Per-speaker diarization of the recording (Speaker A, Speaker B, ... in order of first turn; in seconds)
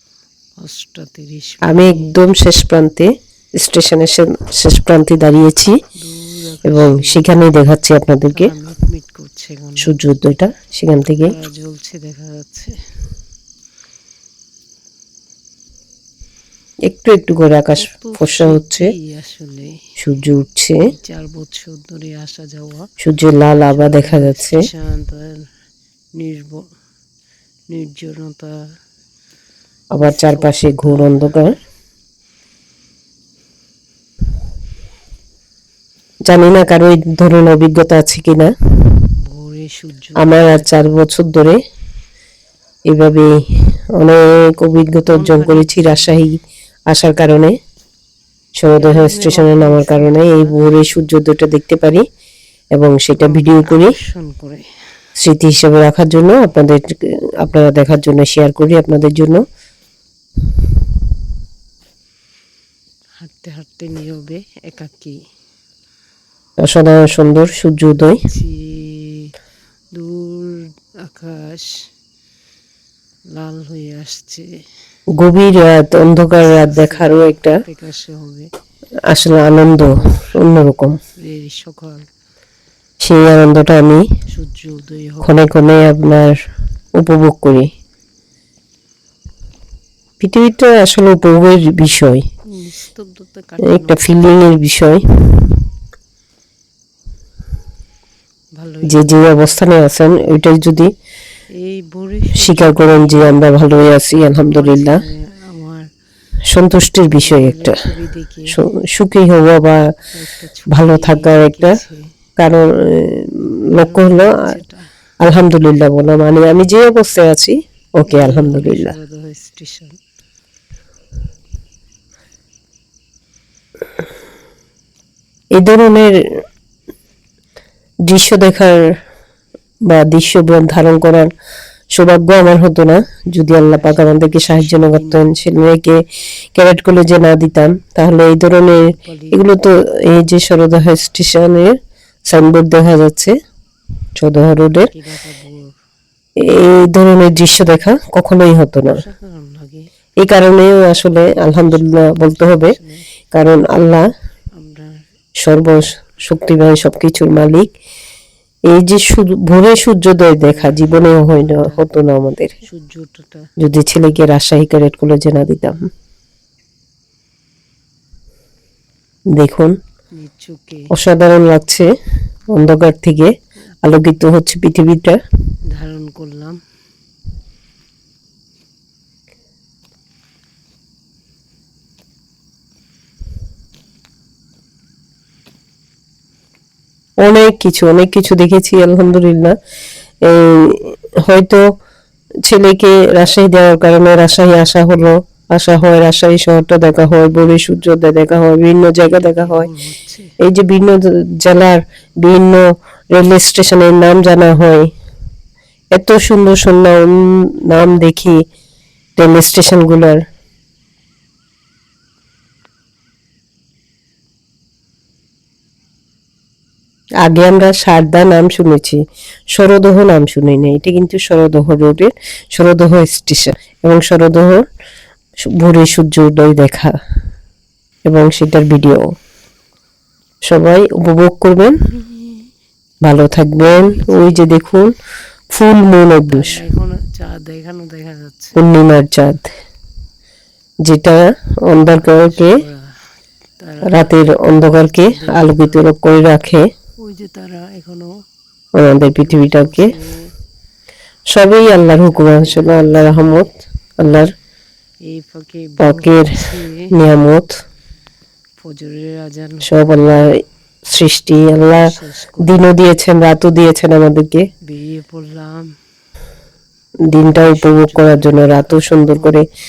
Speaker A: 0.6-2.2, 6.0-7.2, 8.3-10.0, 11.2-12.8, 17.8-19.8, 20.8-22.9, 23.7-25.5, 26.1-26.7, 27.7-28.8, 30.0-31.2, 39.2-40.7, 45.1-46.1, 48.7-50.5, 53.2-54.7, 63.2-65.2, 68.2-69.3, 69.9-71.9, 73.3-74.7, 76.4-78.5, 80.0-80.4, 81.2-82.1, 84.3-85.5, 92.5-94.2, 98.6-99.1, 101.5-103.7, 104.5-105.9, 107.2-108.6, 110.1-112.1, 113.7-114.9, 118.1-120.0, 133.6-135.3, 139.0-139.4, 144.9-145.7, 148.9-149.9, 151.2-153.1, 154.6-155.0, 160.4-161.9, 162.6-163.5, 170.2-170.9, 175.7-176.6, 199.0-200.3, 232.0-232.3, 233.6-234.6, 236.1-238.6, 241.9-243.1, 243.6-245.9, 247.0-248.1, 249.1-250.3, 251.6-253.5, 255.1-256.9, 258.6-260.3, 261.6-262.6, 264.6-265.8, 267.3-269.4
Speaker B: 1.6-5.8, 6.7-8.5, 9.8-11.3, 16.9-18.9, 20.0-20.9, 23.0-24.6, 29.9-31.6, 36.3-39.0, 40.2-41.6, 42.9-47.6, 48.6-52.0, 52.7-54.0, 55.2-59.4, 66.6-68.3, 75.2-77.6, 79.1-81.0, 83.0-84.0, 85.2-86.4, 87.0-87.7, 90.2-92.2, 93.6-95.6, 98.9-100.9, 102.3-105.0, 106.5-107.8, 108.5-109.9, 110.7-111.8, 112.4-114.5, 115.2-118.9, 125.5-126.2, 128.1-128.8, 129.9-131.3, 131.9-136.0, 136.6-141.8, 142.3-143.3, 144.2-144.9, 146.4-149.0, 150.2-152.8, 153.3-154.1, 155.4-157.7, 158.7-162.5, 163.6-165.9, 169.3-169.8, 170.9-171.9, 172.5-173.3, 173.8-175.2, 187.2-189.6, 190.2-191.6, 192.4-199.7, 200.4-204.9, 205.9-208.4, 209.2-210.2, 217.2-219.0, 219.5-224.6, 225.5-226.9, 228.1-229.1, 230.5-231.8, 233.0-234.9, 235.5-236.6, 238.6-239.5, 240.8-242.6, 243.8-246.7, 248.8-249.9, 251.3-254.3, 255.8-257.5, 259.7-264.5, 267.1-269.5